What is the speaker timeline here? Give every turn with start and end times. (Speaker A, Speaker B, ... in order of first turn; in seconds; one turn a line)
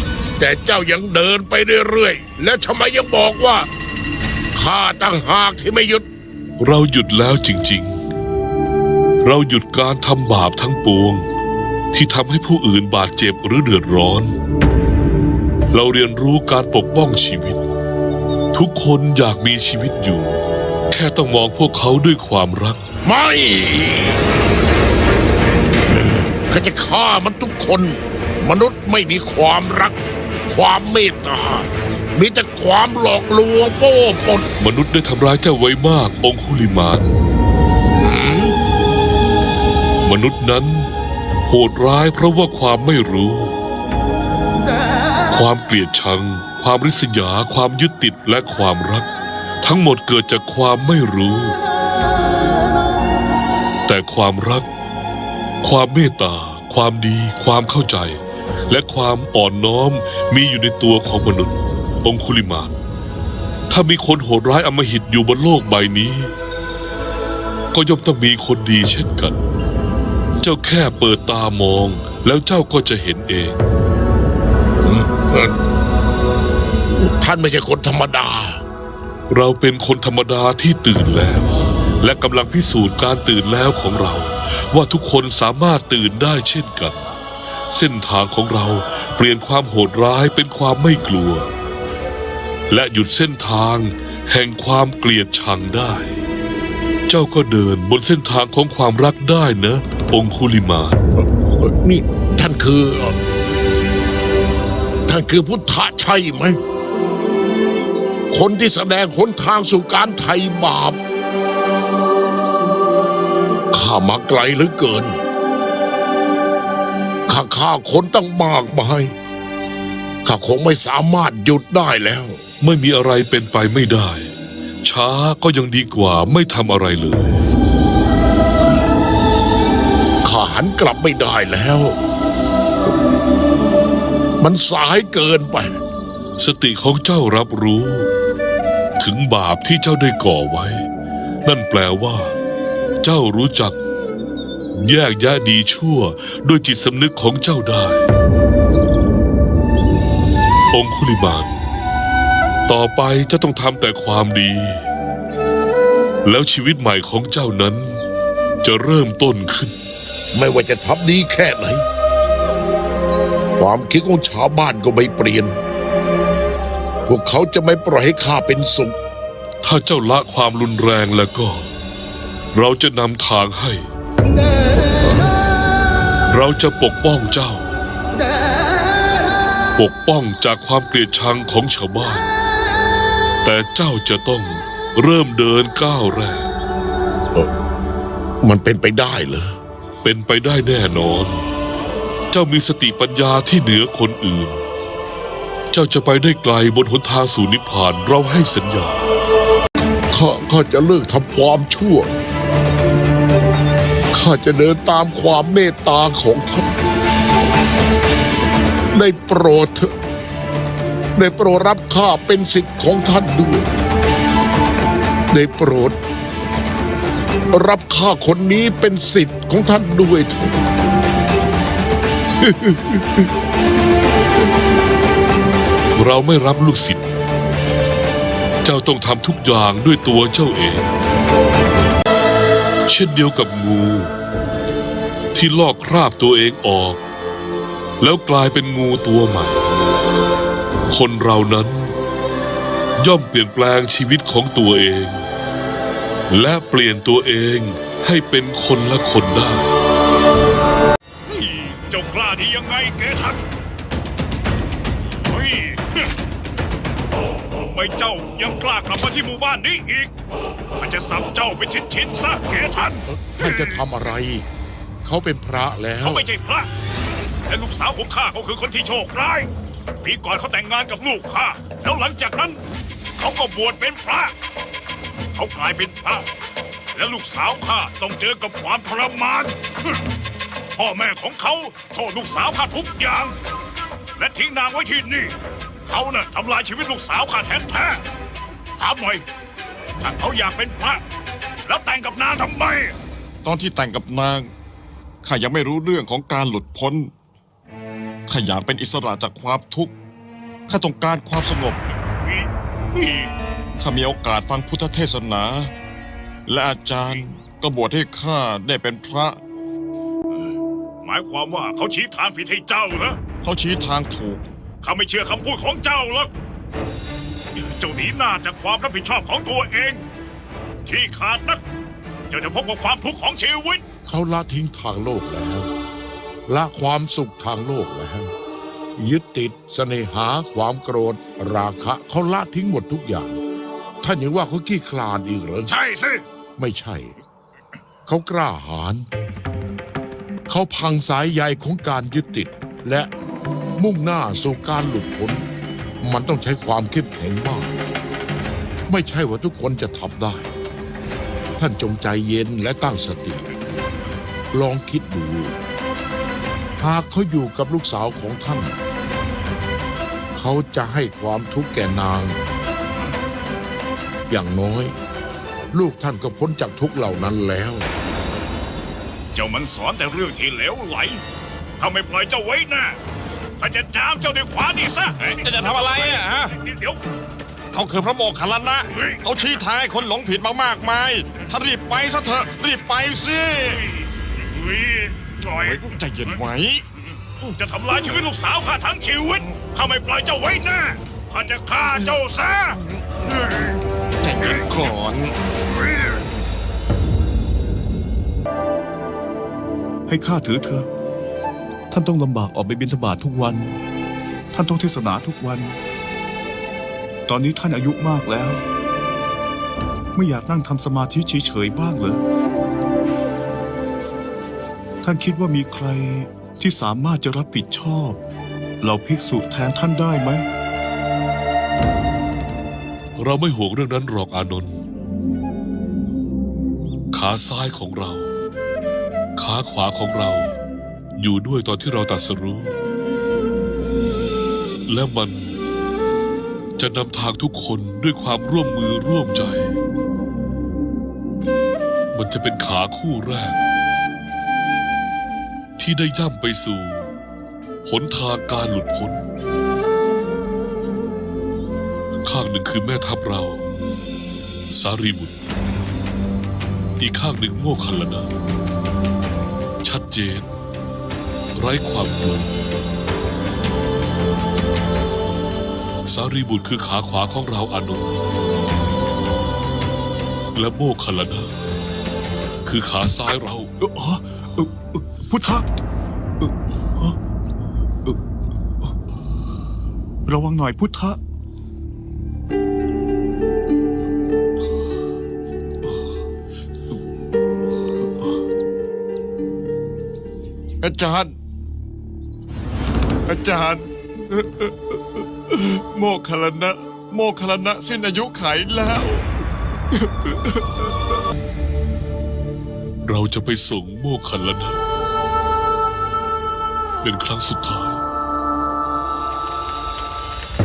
Speaker A: 0.4-3.7
Speaker A: 4.5-6.1
Speaker B: 6.6-8.0
Speaker B: 9.2-11.3
Speaker B: 11.9-14.3
Speaker B: 15.7-17.6
Speaker B: 18.5-22.8
Speaker A: 23.1-24.2
Speaker A: 26.1-34.5
Speaker B: 34.6-37.1
Speaker A: 38.0-38.6
Speaker B: 40.0-40.9
Speaker B: 41.5-43.6
Speaker B: 45.3-49.1
Speaker B: 49.6-51.6
Speaker B: 53.9-54.7
Speaker B: 55.6-62.8
Speaker B: 63.7-66.3
Speaker B: 67.7-69.4
Speaker B: 70.4-73.6
Speaker A: 74.8-75.5
Speaker A: 77.0-78.6
Speaker B: 79.3-87.0
Speaker B: 87.7-91.5
Speaker B: 92.7-96.2
Speaker B: 97.1-101.0
Speaker A: 101.2-103.2
Speaker A: 105.1-106.6
Speaker A: 108.3-111.0
Speaker A: 113.7-115.2
Speaker A: 117.3-119.1
Speaker A: 120.2-122.4
Speaker B: 122.6-127.4
Speaker A: 130.2-131.9
Speaker A: 134.4-135.7
Speaker B: 136.4-138.1
Speaker B: 139.0-140.9
Speaker B: 141.4-142.4
Speaker B: 143.0-143.8
Speaker B: 144.8-148.1
Speaker B: 150.7-151.6
Speaker B: 152.7-154.9
Speaker B: 156.3-158.0
Speaker B: 158.6-159.7
Speaker A: 160.3-161.8
Speaker A: 163.6-165.6
Speaker A: 167.1-169.0
Speaker B: 169.6-171.7
Speaker B: 172.5-173.9
Speaker B: 176.3-177.7
Speaker B: 179.8-182.3
Speaker B: 183.4-186.5
Speaker A: 188.4-189.5
Speaker B: 190.0-191.4
Speaker B: 192.3-194.6
Speaker B: 195.7-199.1
Speaker A: 200.1-202.1
Speaker A: 204.1-206.7
Speaker A: 208.9-209.9
Speaker A: 211.2-213.7
Speaker A: 215.3-216.0
Speaker A: 217.5-220.6
Speaker A: 222.4-223.3
Speaker B: 226.0-227.1
Speaker B: 228.6-230.9
Speaker B: 232.9-234.1
Speaker B: 235.3-237.0
Speaker B: 238.0-239.7
Speaker B: 240.9-241.9
Speaker B: 243.0-245.3
Speaker B: 246.3-249.7
Speaker C: 251.3-253.4
Speaker C: 255.3-256.1
Speaker C: 257.6-260.1
Speaker C: 260.8-263.8
Speaker A: 263.1-264.4
Speaker A: 265.0-266.3
Speaker C: 266.0-266.7
Speaker C: 267.5-269.5
Speaker C: 270.0-272.6
Speaker C: 273.2-274.3
Speaker C: 275.4-276.3
Speaker C: 276.9-279.6
Speaker C: 280.8-283.4
Speaker C: 284.2-285.4
Speaker C: 285.9-288.0
Speaker C: 288.8-289.2
Speaker C: 290.0-291.0
Speaker C: 291.7-293.0
Speaker D: 293.4-294.5
Speaker D: 295.2-297.1
Speaker D: 298.3-299.9
Speaker D: 300.7-301.8
Speaker C: 301.9-303.3
Speaker D: 303.8-305.7
Speaker D: 306.5-309.4
Speaker C: 311.0-313.2
Speaker D: 313.4-314.5
Speaker C: 314.8-316.3
Speaker C: 317.6-320.0
Speaker C: 320.9-321.6
Speaker C: 322.3-323.8
Speaker A: 324.1-325.7
Speaker A: 326.5-328.3
Speaker A: 329.0-333.4
Speaker A: 334.0-335.7
Speaker C: 335.7-336.2
Speaker A: 336.6-337.1
Speaker A: 338.1-339.1
Speaker A: 340.5-343.1
Speaker A: 343.8-345.4
Speaker A: 346.0-347.7
Speaker A: 348.9-350.5
Speaker A: 351.6-353.5
Speaker A: 354.5-355.6
Speaker A: 356.8-358.7
Speaker A: 360.4-362.4
Speaker A: 364.3-365.0
Speaker A: 365.7-367.9
Speaker C: 369.4-371.2
Speaker C: 371.8-373.0
Speaker C: 373.6-377.0
Speaker D: 375.3-376.6
Speaker D: 377.7-383.8
Speaker C: 378.9-379.6
Speaker C: 383.7-386.4
Speaker D: 385.5-386.9
Speaker C: 387.6-393.8
Speaker D: 394.2-395.4
Speaker C: 394.4-395.0
Speaker E: 400.1-400.9
Speaker E: 401.9-403.8
Speaker E: 404.5-405.8
Speaker E: 407.3-408.6
Speaker E: 410.1-412.2
Speaker E: 415.0-418.2
Speaker E: 418.8-420.5
Speaker B: 423.2-424.8
Speaker B: 427.1-428.3
Speaker B: 429.4-430.6
Speaker B: 431.2-432.8
Speaker B: 434.9-435.6
Speaker B: 436.8-439.7
Speaker B: 442.1-443.6
Speaker B: 445.8-447.1
Speaker B: 447.8-449.2
Speaker B: 452.2-453.7
Speaker B: 454.7-455.4
Speaker B: 457.0-458.3
Speaker B: 459.8-460.5
Speaker B: 461.6-462.5
Speaker B: 466.1-468.2
Speaker B: 470.6-471.6
Speaker B: 472.6-473.7
Speaker E: 473.8-475.7
Speaker E: 476.4-477.2
Speaker E: 480.3-481.2
Speaker D: 490.8-491.4
Speaker D: 493.3-499.3
Speaker D: 499.9-500.9
Speaker B: 503.0-504.8
Speaker B: 507.0-508.0